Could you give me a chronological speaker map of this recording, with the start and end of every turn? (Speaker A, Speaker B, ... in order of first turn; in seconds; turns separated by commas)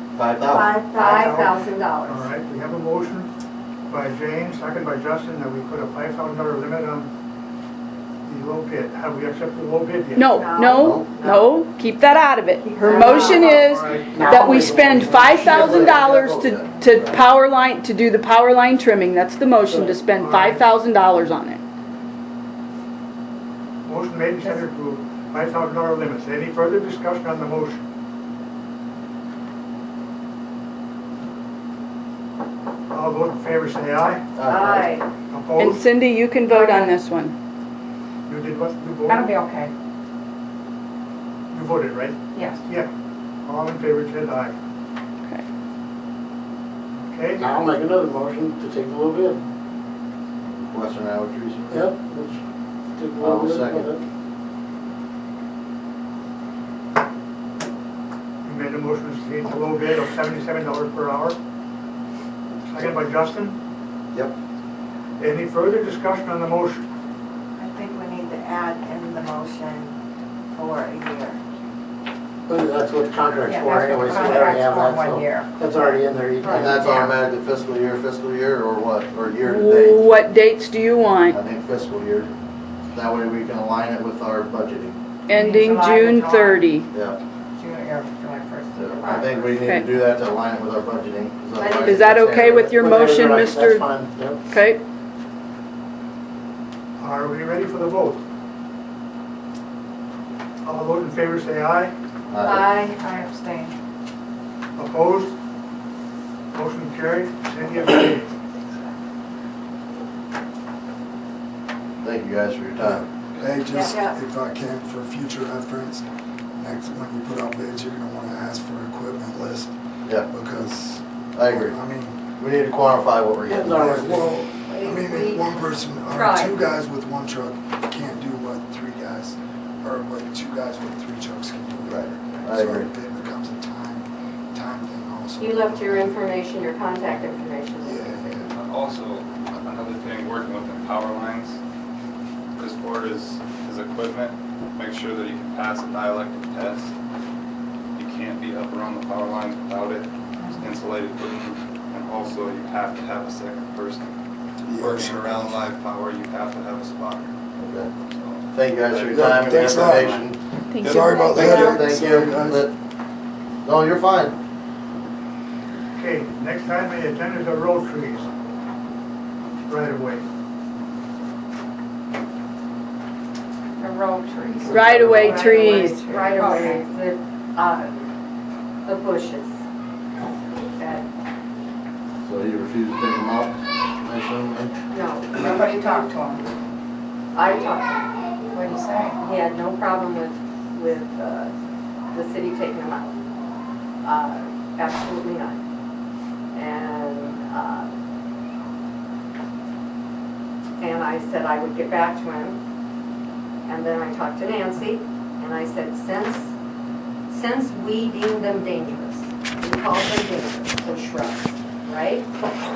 Speaker A: 0.1-0.8, Speaker B: 0.5-1.3, Speaker C: 0.9-3.3, Speaker D: 1.0-2.3, Speaker C: 3.9-7.1, Speaker C: 8.2-10.3, Speaker E: 10.1-21.6, Speaker D: 10.3-11.3, Speaker A: 10.6-11.1, Speaker B: 12.8-13.6, Speaker D: 12.9-13.4, Speaker C: 13.5-14.2, Speaker F: 14.1-15.7, Speaker A: 14.9-16.7, Speaker F: 19.6-20.0, Speaker C: 20.2-20.6, Speaker C: 23.8-27.8, Speaker C: 32.9-34.2, Speaker A: 34.3-34.9, Speaker D: 34.4-35.1, Speaker C: 35.3-35.8, Speaker E: 35.6-37.3, Speaker D: 36.5-37.0, Speaker C: 38.3-39.3, Speaker G: 39.4-39.7, Speaker C: 41.5-42.9, Speaker C: 43.4-44.5, Speaker C: 47.0-47.6, Speaker F: 47.4-49.4, Speaker A: 50.4-51.9, Speaker F: 51.7-52.4, Speaker F: 53.0-54.0, Speaker A: 53.2-53.9, Speaker C: 58.4-61.4, Speaker C: 62.7-63.6, Speaker C: 65.2-66.8, Speaker B: 67.6-70.0, Speaker B: 70.5-71.4, Speaker F: 72.5-76.9, Speaker G: 73.5-75.5, Speaker B: 74.1-74.9, Speaker D: 76.4-76.7, Speaker A: 76.5-80.1, Speaker E: 79.4-81.4, Speaker A: 81.3-82.3, Speaker A: 82.9-85.0, Speaker E: 85.3-86.9, Speaker G: 85.4-86.3, Speaker A: 86.9-87.2, Speaker G: 87.6-88.6, Speaker A: 88.7-92.8, Speaker E: 89.6-89.9, Speaker D: 91.6-92.1, Speaker E: 91.8-93.9, Speaker F: 92.7-94.5, Speaker E: 94.5-94.8, Speaker C: 97.0-98.2, Speaker C: 100.6-101.9, Speaker A: 102.3-102.8, Speaker D: 102.4-103.0, Speaker G: 103.0-103.7, Speaker C: 104.8-105.3, Speaker C: 106.5-108.3, Speaker A: 112.0-113.0, Speaker H: 112.8-116.0, Speaker B: 113.7-114.2, Speaker H: 116.6-122.3, Speaker A: 121.3-121.8, Speaker A: 122.4-124.0, Speaker F: 123.5-124.4, Speaker H: 123.7-136.2, Speaker D: 124.7-126.6, Speaker A: 131.9-132.9, Speaker D: 135.4-138.3, Speaker H: 137.8-138.5, Speaker I: 138.5-141.6, Speaker I: 142.6-146.9, Speaker I: 147.9-154.1, Speaker H: 154.6-155.7, Speaker I: 154.7-157.3, Speaker A: 157.6-157.9, Speaker I: 158.1-160.2, Speaker A: 158.5-160.4, Speaker H: 159.1-160.2, Speaker E: 160.7-161.8, Speaker I: 160.8-161.3, Speaker H: 160.8-162.7, Speaker A: 161.3-162.7, Speaker A: 163.6-164.3, Speaker C: 165.9-168.3, Speaker C: 169.7-170.2, Speaker E: 174.7-176.0, Speaker A: 174.8-175.2, Speaker D: 175.2-177.9, Speaker B: 175.3-175.8, Speaker D: 178.8-179.6, Speaker D: 180.8-181.1, Speaker A: 182.2-184.7, Speaker D: 184.9-185.6, Speaker G: 185.5-186.4, Speaker D: 187.3-188.1, Speaker G: 188.5-189.2, Speaker D: 189.2-191.5, Speaker D: 192.1-193.1, Speaker D: 194.0-195.6, Speaker D: 196.5-197.9, Speaker D: 200.8-202.6, Speaker D: 203.7-206.5, Speaker D: 207.3-212.3